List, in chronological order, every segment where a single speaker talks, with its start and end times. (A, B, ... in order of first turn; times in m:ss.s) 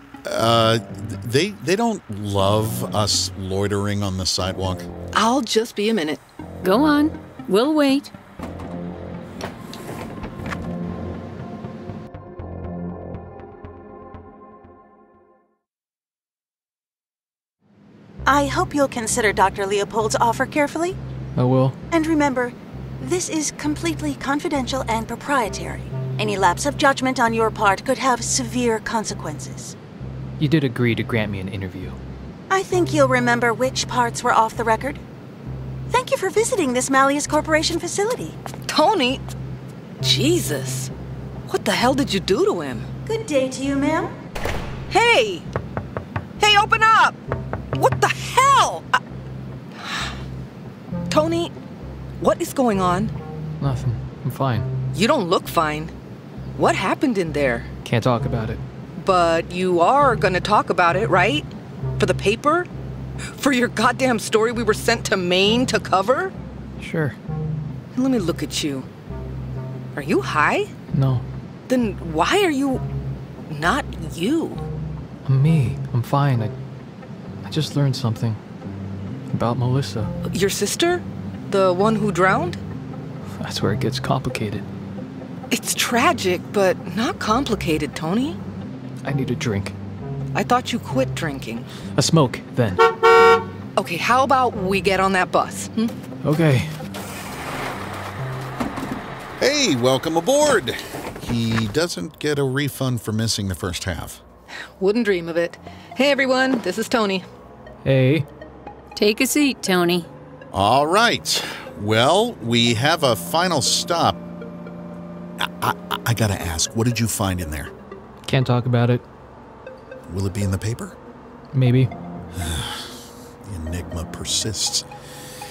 0:00.2-0:04.9 A
0:05.1-0:06.2 B
0:06.6-0:08.1 C
0:18.2-0:21.0 D
0:21.3-0:21.8 E
0:21.9-0:29.7 D
0:30.4-0:32.0 E
0:32.5-0:35.0 D
0:35.9-0:38.4 D
0:38.7-0:39.2 B
0:40.0-0:40.9 B
0:41.5-0:42.9 B
0:43.0-0:44.1 D
0:44.9-0:45.5 B
0:46.4-0:47.2 B
0:47.7-0:49.0 B
0:49.8-0:50.1 B
0:51.1-0:51.5 B
0:52.2-0:53.1 B
0:53.6-0:54.7 E
0:54.9-0:55.9 B
0:56.6-0:57.7 B
0:57.8-0:58.6 E
0:59.0-1:02.7 B
1:03.4-1:06.3 B
1:06.8-1:07.2 E
1:07.9-1:08.9 B
1:09.9-1:10.7 B
1:10.9-1:11.2 E
1:11.7-1:12.8 B
1:13.5-1:14.6 B
1:15.2-1:16.5 E
1:17.4-1:18.4 E
1:19.3-1:20.1 E
1:20.3-1:22.6 B
1:23.4-1:24.6 E
1:25.5-1:28.4 B
1:29.0-1:29.7 E
1:30.3-1:31.7 B
1:32.0-1:32.8 E
1:33.8-1:35.9 B
1:36.2-1:36.7 E
1:39.4-1:44.2 A
1:44.8-1:47.2 B
1:47.8-1:48.2 E
1:49.0-1:50.1 C
1:50.5-1:54.2 A
1:55.4-1:57.7 A
1:58.2-1:59.0 E
2:00.1-2:01.0 A
2:01.5-2:01.9 E
2:02.4-2:02.9 A
2:03.4-2:04.8 A